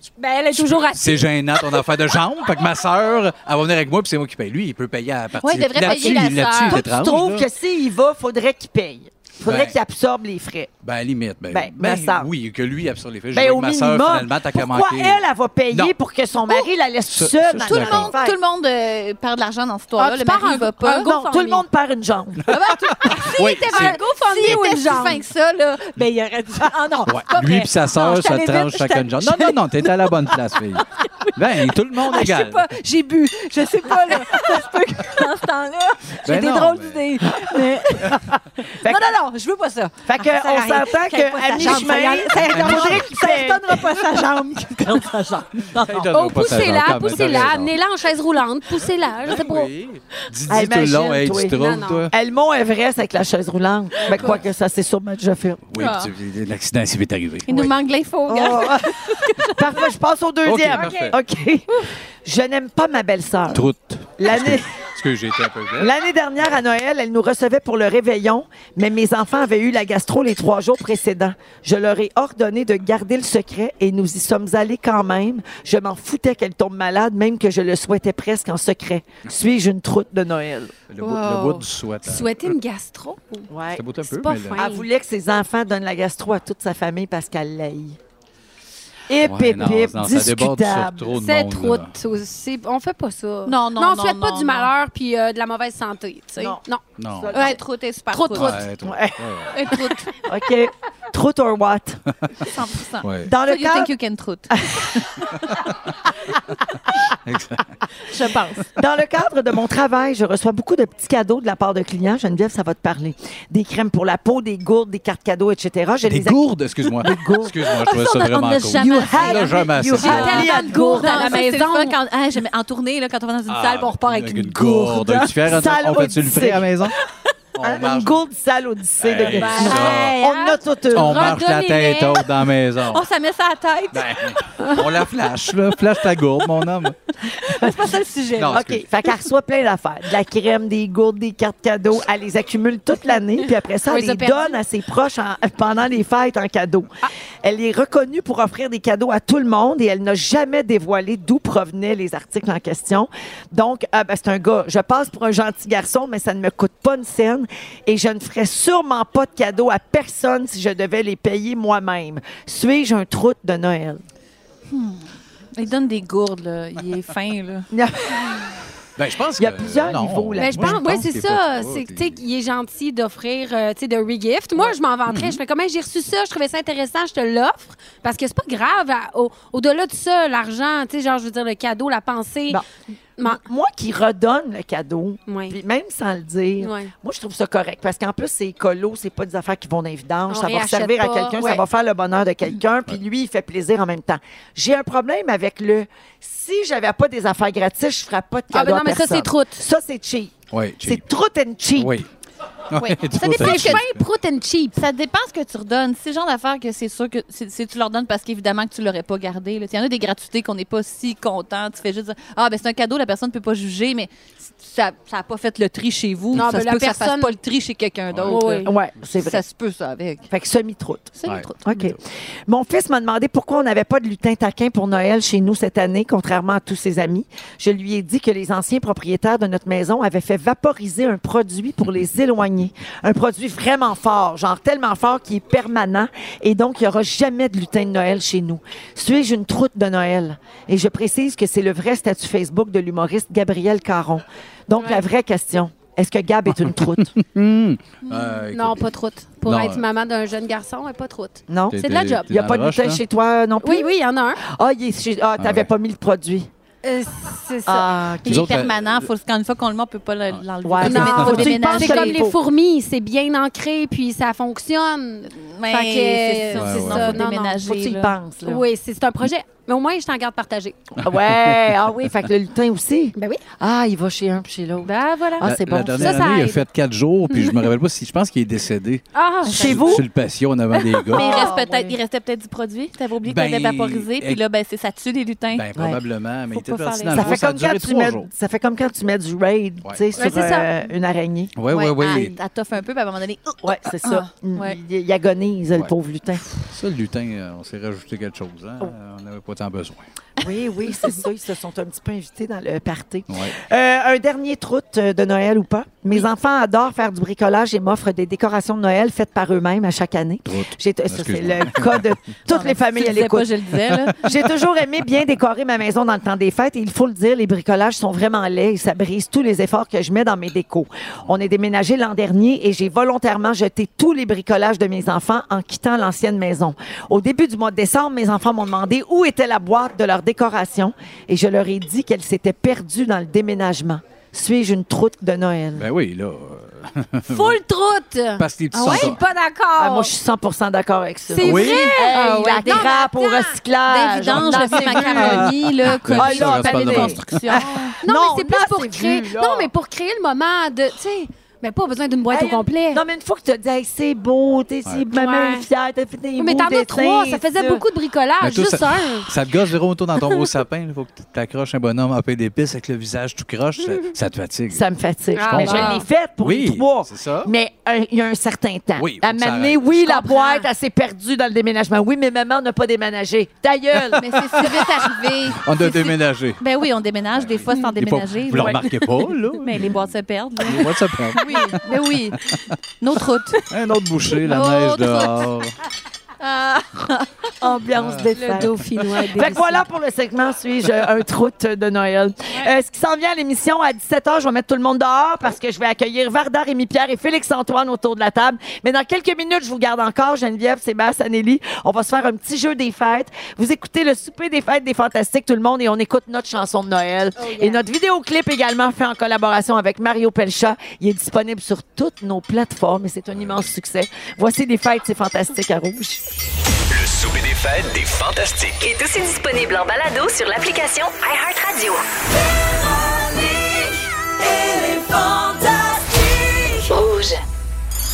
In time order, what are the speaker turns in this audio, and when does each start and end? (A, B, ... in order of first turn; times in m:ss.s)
0:00.2-0:01.9 A
0:00.5-0:07.5 B
0:05.4-0:06.9 C
0:05.8-0:10.7 D
0:09.4-0:09.8 B
0:10.8-0:15.9 B
0:11.5-0:12.3 D
0:13.3-0:18.4 D
0:17.1-0:18.1 B
0:17.6-0:21.4 C
0:20.0-0:21.6 A
0:21.0-0:22.4 D
0:22.5-0:31.3 C
0:23.1-0:24.0 B
0:23.1-0:25.2 A
0:26.9-0:27.5 A
0:27.1-0:32.7 B
0:32.0-0:46.1 C
0:36.2-0:37.0 B
0:37.4-0:39.1 D
0:40.0-0:43.8 D
0:42.5-0:43.0 B
0:45.8-0:47.7 B
0:46.1-0:49.7 A
0:49.2-0:52.1 B
0:50.5-0:55.6 D
0:51.5-0:52.1 A
0:55.7-0:57.7 B
0:55.8-0:56.1 C
0:57.5-0:59.5 C
0:58.3-0:59.0 D
0:59.5-1:03.7 D
1:00.4-1:01.2 B
1:00.7-1:01.1 A
1:03.5-1:05.9 B
1:04.2-1:04.7 D
1:05.8-1:20.7 D
1:20.9-1:22.6 B
1:21.0-1:21.6 C
1:21.2-1:23.5 A
1:23.5-1:23.8 D
1:23.7-1:24.6 B
1:24.0-1:24.9 A
1:24.6-1:28.0 D
1:29.1-1:31.2 D
1:29.2-1:31.9 B
1:31.2-1:36.8 A
1:33.5-1:34.7 C
1:36.4-1:37.6 D
1:37.0-1:37.3 B
1:37.3-1:38.6 C
1:38.1-1:38.7 A
1:38.3-1:39.6 B
1:38.8-1:39.3 D
1:39.5-1:40.2 C
1:40.2-1:42.0 D
1:42.4-1:45.4 C
1:43.0-1:43.3 B
1:43.2-1:43.9 D
1:44.5-1:45.0 D
1:47.2-1:47.8 B
1:48.1-1:48.7 C
1:48.8-1:57.7 D
1:56.1-2:00.5 B
1:57.6-2:05.4 C
1:58.7-2:01.4 D
2:00.0-2:02.0 A
2:03.5-2:07.0 B
2:05.3-2:06.8 D
2:07.6-2:08.2 B
2:07.6-2:11.4 D
2:09.0-2:10.2 B
2:09.2-2:12.3 A
2:10.9-2:13.0 B
2:12.8-2:14.4 C
2:13.9-2:17.0 B
2:17.5-2:18.6 C
2:18.4-2:18.8 B
2:18.5-2:44.0 D
2:23.9-2:24.6 A
2:44.7-2:47.7 C
2:47.7-2:48.5 D
2:49.0-2:52.2 B
2:49.4-2:50.8 D
2:50.4-3:02.6 A
2:55.1-2:55.4 B
3:03.2-3:22.0 D
3:05.3-3:05.6 A
3:06.6-3:06.9 A
3:10.3-3:11.6 A
3:18.5-3:19.6 A
3:20.5-3:21.0 B
3:21.8-3:22.1 B
3:22.7-3:24.0 B
3:22.7-3:23.8 C
3:23.2-3:24.8 A
3:24.8-3:40.3 C
3:36.3-3:37.3 A
3:38.1-3:38.4 B
3:38.3-3:38.7 A
3:38.6-3:39.4 D
3:40.3-4:07.1 D
3:41.2-3:41.7 C
3:41.3-3:41.9 B
4:07.1-4:08.8 B
4:08.0-4:08.4 C
4:08.5-4:12.3 A
4:09.4-4:09.8 B
4:11.5-4:16.5 D
4:11.7-4:13.0 B
4:13.6-4:14.4 A
4:15.4-4:15.7 B
4:16.8-4:17.9 A
4:17.6-4:18.6 D
4:18.2-4:22.2 C
4:18.3-4:19.0 B
4:20.6-4:22.4 D
4:20.8-4:27.6 A
4:25.4-4:28.2 C
4:26.5-4:27.2 B
4:27.4-4:28.6 D
4:28.4-4:30.8 A
4:31.0-4:36.5 D
4:31.1-4:31.6 B
4:33.2-4:33.4 A
4:34.8-4:36.7 A
4:35.4-4:41.5 B
4:37.3-4:37.6 A
4:39.1-4:39.9 A
4:39.4-4:40.1 D
4:40.9-4:42.0 D
4:41.1-4:45.7 C
4:43.2-4:44.4 B
4:45.5-4:48.3 B
4:45.8-4:46.0 D
4:46.5-4:47.4 C
4:47.1-4:51.6 D
4:49.8-4:50.4 B
4:50.2-4:50.7 A
4:51.6-4:52.4 B
4:51.7-4:54.8 C
4:53.6-4:56.5 D
4:56.6-5:00.1 B
5:00.4-5:13.6 D
5:03.3-5:03.6 B
5:10.5-5:12.1 B
5:12.5-5:14.4 C
5:14.2-5:35.9 D
5:35.8-5:37.6 B
5:37.3-5:40.1 A
5:38.4-5:39.2 B
5:38.7-5:39.2 C
5:39.8-5:45.6 D
5:41.3-5:43.6 A
5:41.4-5:43.0 C
5:41.4-5:41.9 B
5:43.9-5:47.9 C
5:44.5-5:45.4 A
5:45.1-5:47.7 B
5:46.1-5:49.7 D
5:48.0-5:53.0 A
5:52.3-5:57.8 D
5:55.1-5:55.7 A
5:56.4-5:59.3 A
5:58.4-6:04.8 B
6:04.7-6:14.8 D
6:05.4-6:06.0 A
6:05.4-6:07.5 B
6:09.0-6:09.8 B
6:10.1-6:10.6 A
6:14.2-6:19.0 C
6:15.5-6:16.6 B
6:17.4-6:21.8 B
6:19.5-6:22.4 C
6:21.5-6:21.7 A
6:23.0-6:23.7 C
6:23.7-6:25.7 B
6:24.4-6:25.5 C
6:26.4-6:27.5 C
6:27.6-6:56.2 D
6:28.0-6:28.3 B
6:28.4-6:29.8 A
6:47.4-6:47.8 A
6:56.9-6:58.9 E
6:58.8-7:02.0 F
7:04.5-7:07.4 F